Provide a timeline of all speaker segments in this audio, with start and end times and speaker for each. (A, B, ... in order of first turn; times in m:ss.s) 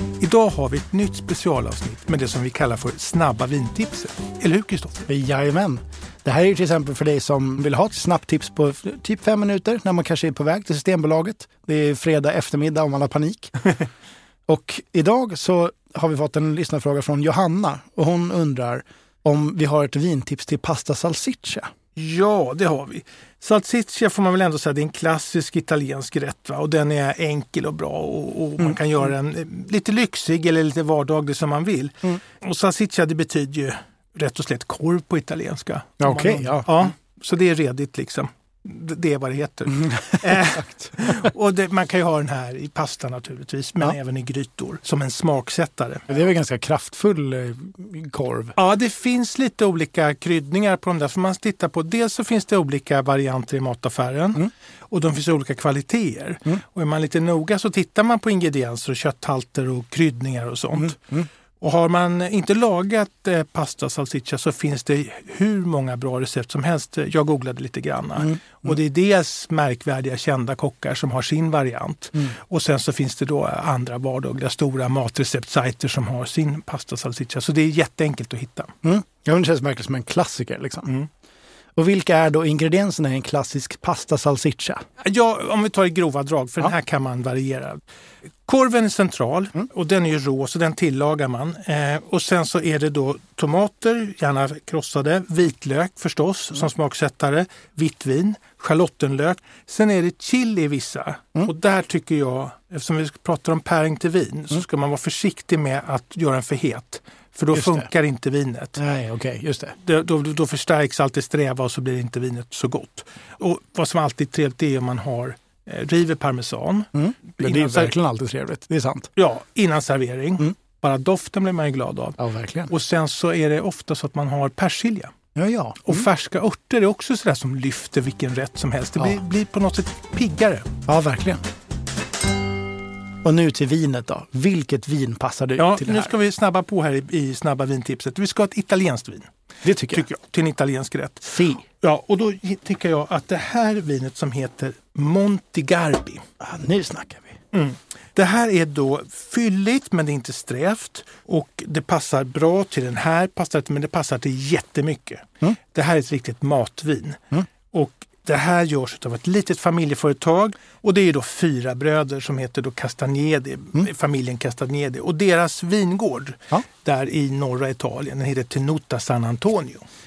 0:00.2-0:05.1 A
0:05.1-0:13.7 B
0:14.5-0:21.7 B
0:22.0-0:46.0 A
0:36.0-0:36.8 B
0:40.1-0:40.4 B
0:46.1-0:48.5 B
0:48.5-1:18.7 A
1:00.8-1:01.2 B
1:18.8-1:20.9 B
1:21.8-1:24.8 B
1:25.0-1:27.8 A
1:28.4-1:48.8 A
1:47.5-1:47.9 B
1:48.8-1:49.7 B
1:49.8-1:57.9 A
1:56.9-1:59.1 B
1:59.2-2:05.1 A
2:02.2-2:02.7 B
2:05.3-2:06.1 B
2:05.8-2:10.7 A
2:10.9-2:11.4 B
2:13.2-2:16.1 B
2:15.6-2:19.3 A
2:19.6-2:20.0 B
2:19.9-2:26.2 A
2:21.3-2:21.6 B
2:26.4-2:27.3 B
2:27.5-2:49.8 A